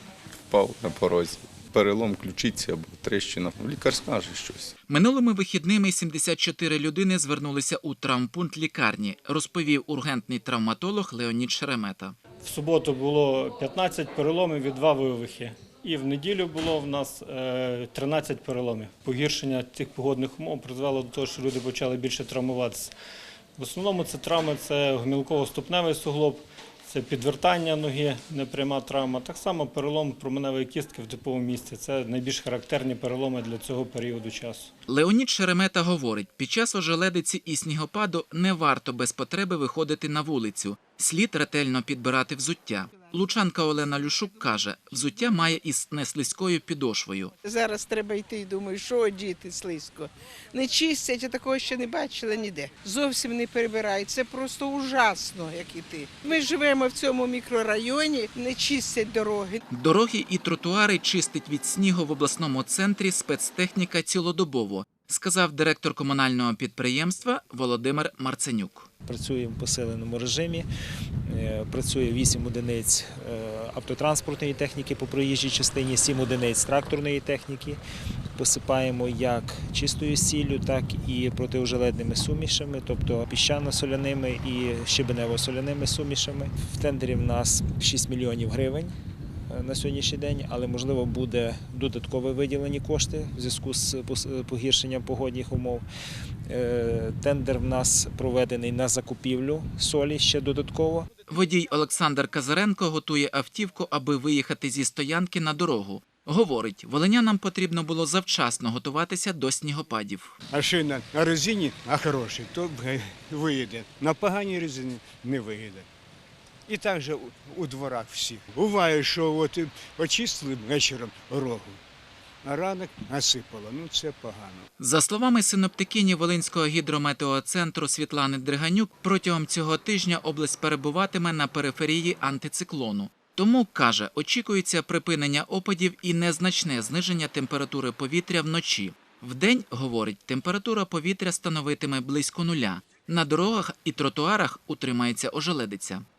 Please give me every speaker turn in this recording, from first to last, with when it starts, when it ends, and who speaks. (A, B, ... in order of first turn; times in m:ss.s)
0:00.5-0:04.7 A
0:04.9-0:12.2 B
0:12.4-0:22.9 C
0:23.6-0:34.7 C
0:34.9-0:47.3 B
0:47.4-0:59.6 D
0:59.7-1:08.9 B
1:09.1-1:10.7 E
1:11.3-1:17.8 E
1:18.4-1:28.9 E
1:29.5-1:35.9 E
1:36.5-1:41.1 E
1:41.3-1:50.4 B
1:50.5-1:55.9 F
1:56.7-2:01.8 F
2:02.4-2:04.6 F
2:04.8-2:26.0 B